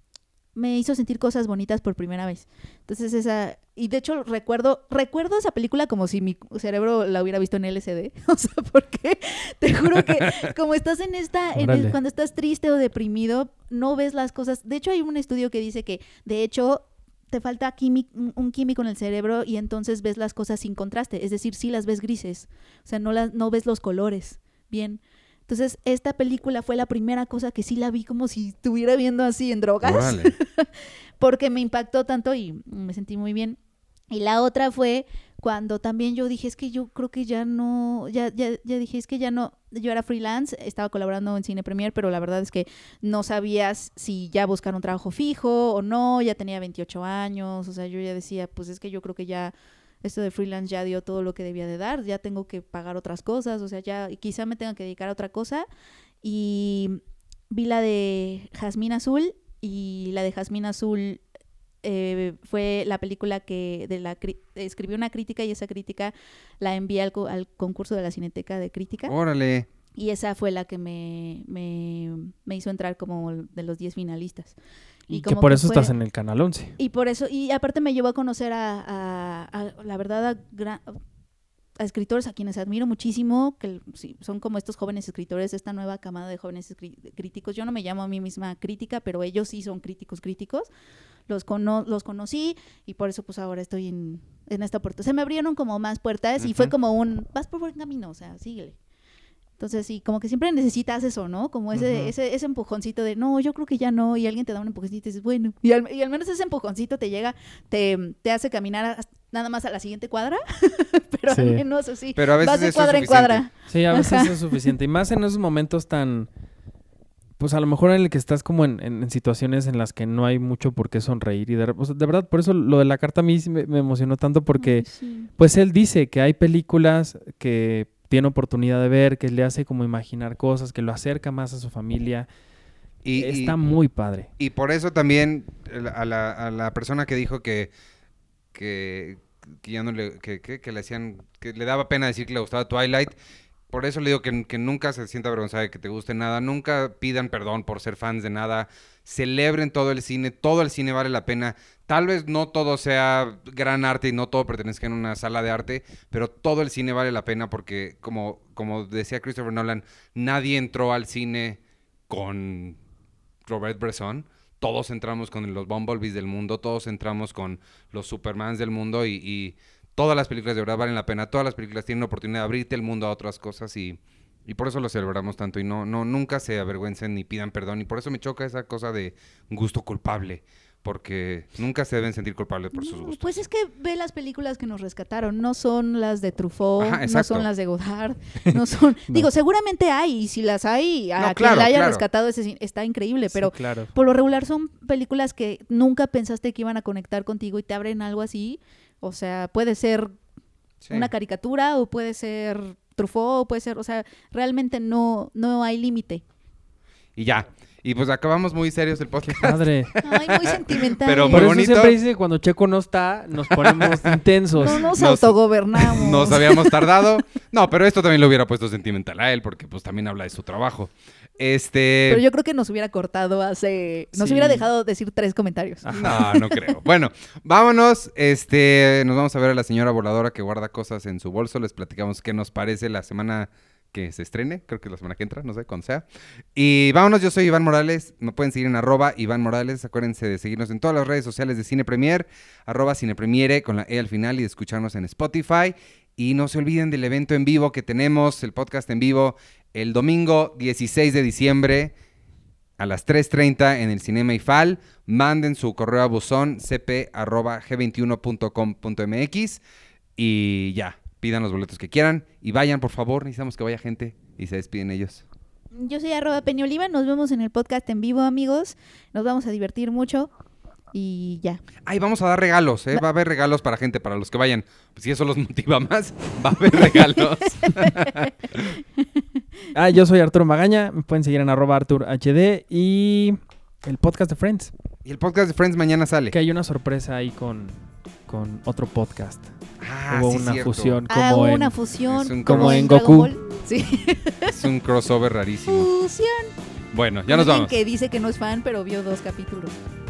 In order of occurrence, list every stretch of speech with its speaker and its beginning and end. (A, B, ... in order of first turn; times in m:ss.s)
0:00.6-0:33.6 A
0:11.6-0:12.0 B
0:29.8-0:30.3 C
0:34.1-0:55.7 A
0:56.2-1:01.2 A
1:01.8-1:09.1 A
1:09.1-1:09.7 C
1:10.0-1:14.6 A
1:15.1-1:15.9 A
1:15.1-1:16.8 B
1:16.8-1:21.0 A
1:21.8-1:30.7 A
1:31.3-1:38.8 A
1:36.4-1:36.7 C
1:39.6-1:54.7 A
1:41.7-1:42.1 B
1:51.3-1:51.6 B
1:52.2-1:53.4 C
1:53.7-1:56.3 B
1:57.4-2:04.9 B
2:04.6-2:05.3 A
2:05.4-2:12.3 B
2:13.0-2:13.6 C
2:13.2-2:14.3 B
2:14.4-2:17.7 C
2:18.5-2:23.1 C
2:23.7-2:42.8 C
2:43.5-3:03.4 C
3:02.8-3:20.1 A
3:06.8-3:07.5 C
3:08.5-3:09.3 B
3:11.2-3:12.0 C
3:13.3-3:13.9 B
3:20.8-3:21.1 C
3:20.9-3:26.2 A
3:27.2-3:32.0 C
3:29.2-3:29.9 B
3:30.0-3:31.6 A
3:31.3-3:34.9 B
3:33.5-3:42.2 C
3:34.6-3:36.8 A
3:42.1-3:46.6 A
3:44.1-3:44.7 B
3:45.8-3:46.4 B
3:45.9-4:11.9 C
4:12.8-4:19.6 C
4:20.2-4:25.2 C
4:25.7-4:30.3 A
4:30.9-4:31.6 A
4:31.9-4:38.8 C
4:36.9-4:38.3 A
4:39.7-4:44.7 B
4:45.0-4:46.4 C
4:46.3-4:49.5 B
4:49.8-4:51.0 C
4:50.1-4:51.7 B
4:51.1-4:54.7 A
4:52.1-4:52.9 C
4:52.5-4:53.3 B
4:54.5-4:55.9 C
4:55.7-4:56.5 A
4:56.9-4:57.7 C
4:57.3-4:59.8 A